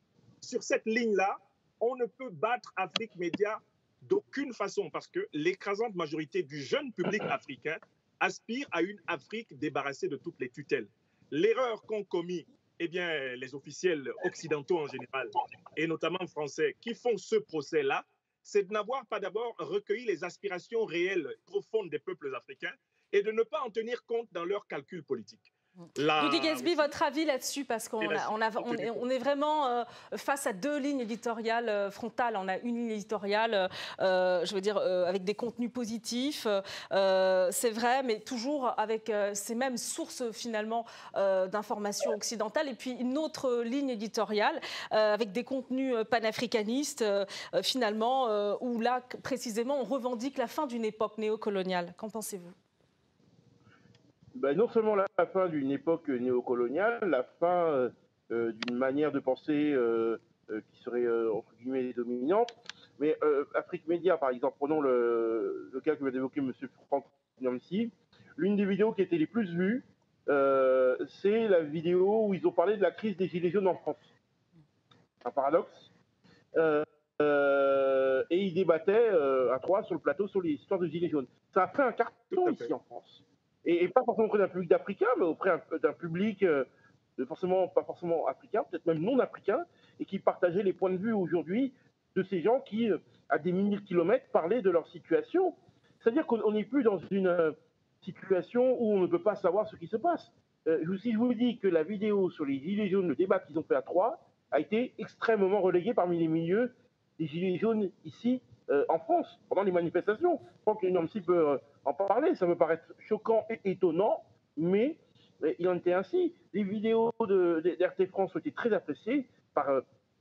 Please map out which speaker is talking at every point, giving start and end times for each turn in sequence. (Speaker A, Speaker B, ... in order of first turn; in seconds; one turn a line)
Speaker A: 0.4-26.9
Speaker B: 26.2-52.5
Speaker A: 28.0-29.0
Speaker C: 54.3-74.1
Speaker C: 75.2-75.9
Speaker C: 76.5-86.7
Speaker A: 82.3-82.7
Speaker C: 87.2-119.8